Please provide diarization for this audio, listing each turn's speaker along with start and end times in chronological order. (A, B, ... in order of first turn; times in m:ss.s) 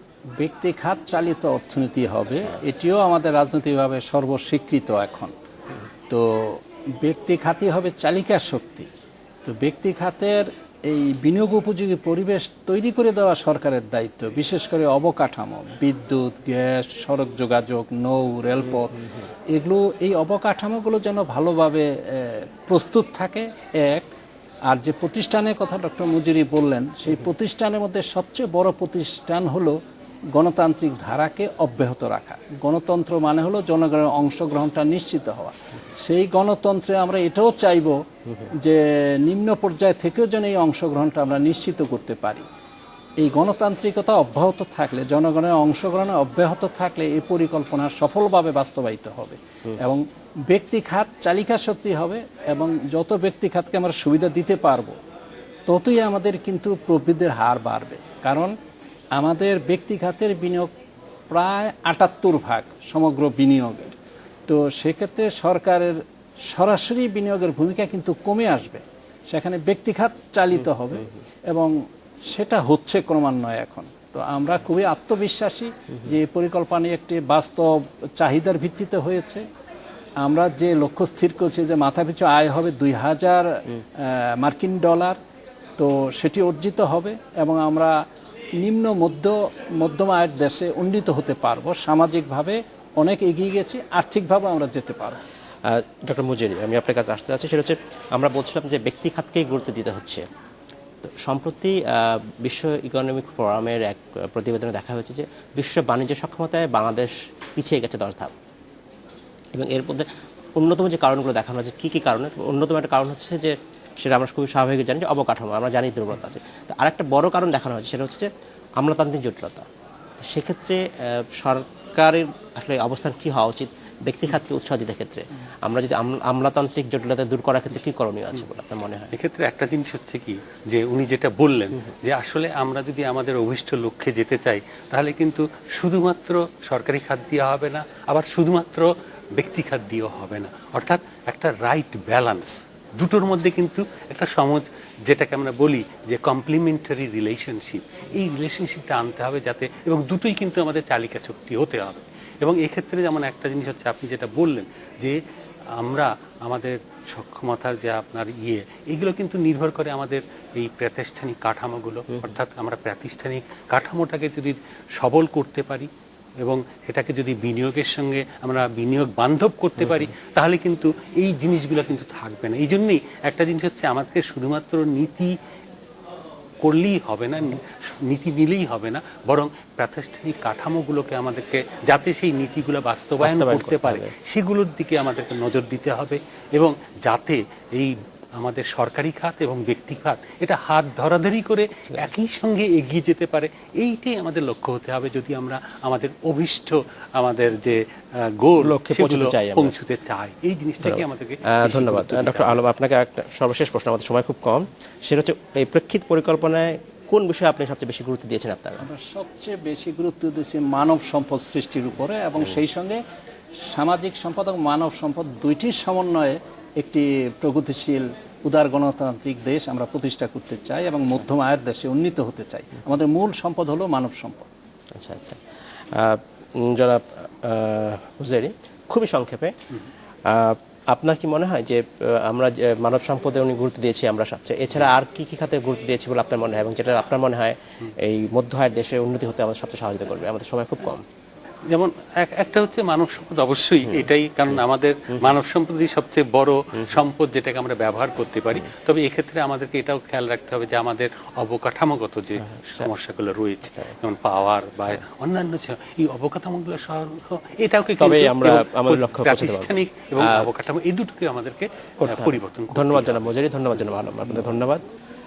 0:00.4-0:05.3 A
0:06.1-0:08.9 A
0:09.4-0:24.1 A
0:24.7-0:29.8 A
0:30.3-0:38.0 A
0:38.6-0:42.4 A
0:43.2-0:55.0 A
0:55.7-0:58.6 A
0:59.2-1:00.7 A
1:01.3-1:04.0 A
1:04.5-1:11.7 A
1:12.3-1:19.4 A
1:20.2-1:25.2 A
1:25.8-1:28.1 A
1:28.6-1:35.2 A
1:35.7-1:40.3 B
1:41.0-1:48.3 B
1:49.5-1:59.7 B
2:00.2-2:09.1 B
2:09.1-2:35.2 C
2:35.8-2:45.9 C
2:46.4-2:55.3 C
2:56.6-3:17.8 C
3:03.2-3:04.1 B
3:18.4-3:22.6 C
3:18.6-3:19.8 B
3:20.8-3:28.8 B
3:28.8-3:33.0 A
3:33.7-3:44.5 A
3:44.9-3:45.4 B
3:45.9-3:49.5 B
3:50.3-4:01.0 B
4:01.7-4:23.3 C
4:18.0-4:20.5 B
4:22.1-4:24.8 B